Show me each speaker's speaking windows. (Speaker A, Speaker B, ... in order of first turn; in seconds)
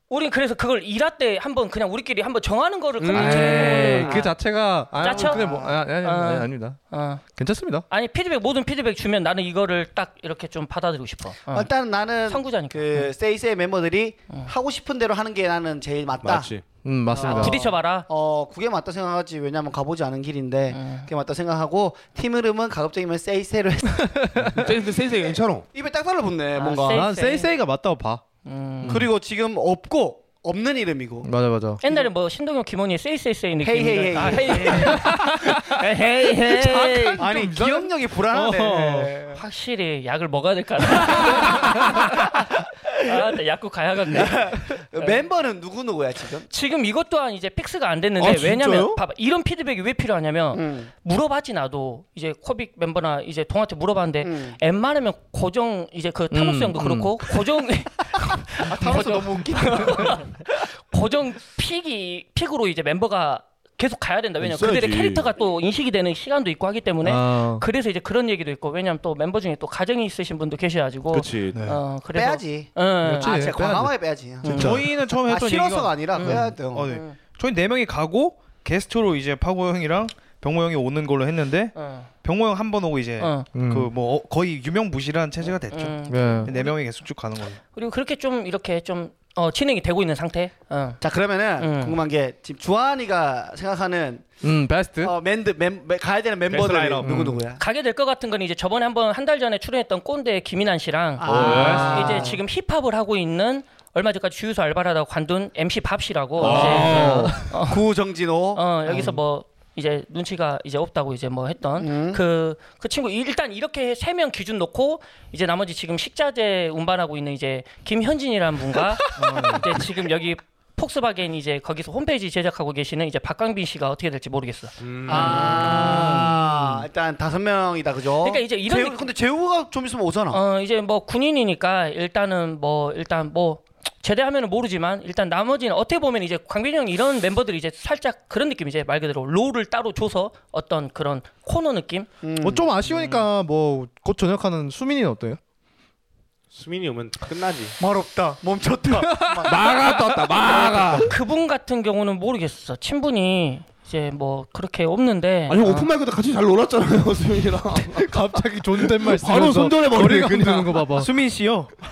Speaker A: 0.1-4.3, 5.0-7.2, 7.9-11.7, 12.3-13.1, 17.2-18.1, 20.7-21.1, 26.5-27.5, 28.4-29.0, 31.8-37.2, 39.3-45.2, 46.5-73.3, 74.4-74.8, 76.1-77.2, 81.7-82.1, 83.2-83.5, 85.4-86.7, 87.7-91.0, 91.6-92.0, 97.6-107.8, 108.5-126.8, 128.2-129.1, 130.3-142.1, 151.0-155.9
Speaker B: 3.0-4.0, 16.2-16.7, 24.5-25.7, 48.2-49.0, 64.4-65.3, 71.1-71.6, 96.5-97.3, 101.2-102.0, 106.4-107.4, 124.8-126.1, 146.5-147.8, 149.4-151.1, 155.5-158.1, 158.8-160.8
Speaker C: 3.1-6.8, 7.3-7.8, 16.8-17.7, 24.1-24.6, 26.9-28.2, 28.8-29.1, 31.2-31.8, 34.8-39.1, 41.4-41.7, 56.3-57.4, 67.0-67.6, 73.0-73.9, 83.5-83.9, 86.1-86.5, 94.4-95.1, 97.0-97.4, 101.7-102.2, 106.4-107.4, 142.4-145.4, 149.0-149.6, 157.9-161.1
Speaker D: 3.3-4.2, 11.5-16.5, 17.1-24.6, 25.7-27.1, 28.8-31.3, 33.6-35.0, 37.1-39.4, 41.0-42.0, 44.1-46.5, 50.5-50.9, 54.2-54.6, 58.6-60.4, 72.1-76.9, 91.0-94.3, 95.0-97.6, 101.2-102.4, 106.4-109.2, 111.8-112.2, 125.0-130.4, 142.2-142.8, 147.8-149.8, 150.4-150.9
Speaker E: 71.5-71.8, 74.4-87.6, 119.2-119.6, 160.9-161.7